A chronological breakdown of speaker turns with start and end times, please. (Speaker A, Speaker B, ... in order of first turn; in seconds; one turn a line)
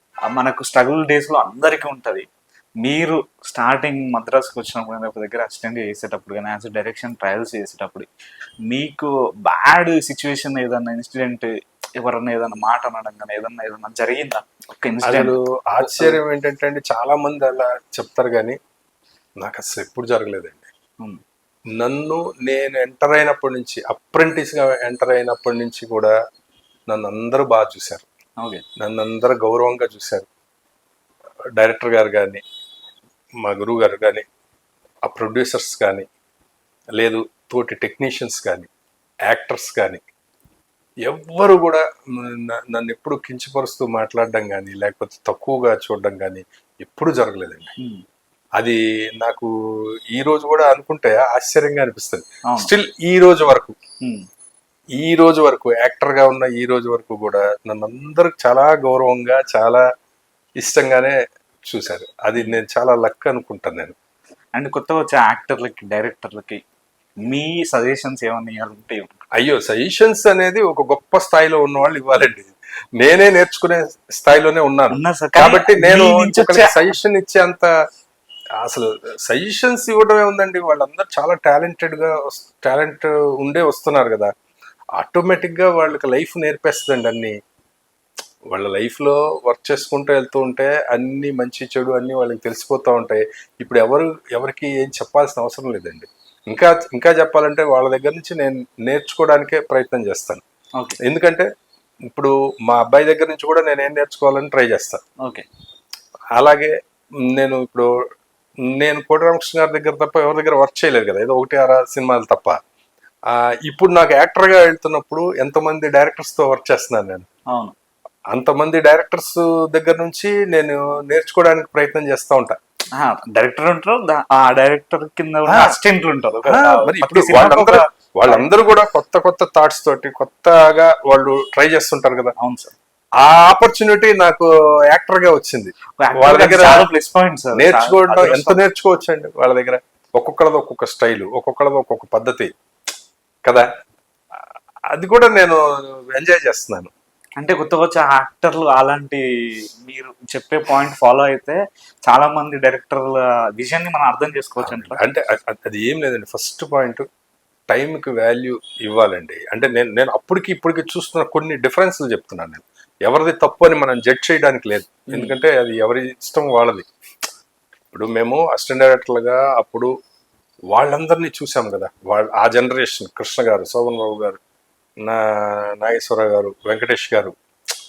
Speaker A: 0.3-2.2
Speaker A: 2.8-8.1
Speaker A: 8.7-11.5
Speaker A: 12.0-16.2
Speaker B: 15.0-18.6
Speaker B: 19.4-20.7
Speaker B: 21.8-26.1
Speaker B: 26.9-28.1
Speaker B: 28.8-30.3
Speaker B: 31.6-32.4
Speaker B: 33.4-34.2
Speaker B: 35.1-36.1
Speaker B: 37.0-38.7
Speaker B: 39.3-40.0
Speaker B: 41.1-47.7
Speaker B: 48.6-49.5
Speaker B: 50.1-53.8
Speaker B: 55.0-59.8
Speaker B: 60.6-61.2
Speaker B: 61.7-64.0
Speaker A: 64.6-66.6
Speaker A: 67.3-69.2
Speaker B: 69.4-77.7
Speaker A: 74.9-77.0
Speaker B: 78.6-84.3
Speaker B: 85.0-87.3
Speaker B: 88.5-100.4
Speaker B: 101.0-101.5
Speaker B: 102.1-105.0
Speaker B: 106.4-106.7
Speaker B: 107.3-107.9
Speaker B: 108.7-112.6
Speaker B: 113.3-117.3
Speaker B: 118.3-122.6
Speaker A: 123.0-128.5
Speaker B: 125.5-125.8
Speaker B: 126.4-132.3
Speaker A: 132.4-132.7
Speaker B: 133.2-136.9
Speaker A: 136.0-138.7
Speaker B: 137.6-142.5
Speaker B: 144.9-146.9
Speaker A: 147.4-149.2
Speaker A: 149.8-155.0
Speaker B: 154.6-157.1
Speaker B: 157.7-166.9
Speaker A: 165.1-165.3
Speaker B: 167.9-169.9
Speaker B: 170.7-174.4
Speaker B: 175.0-177.3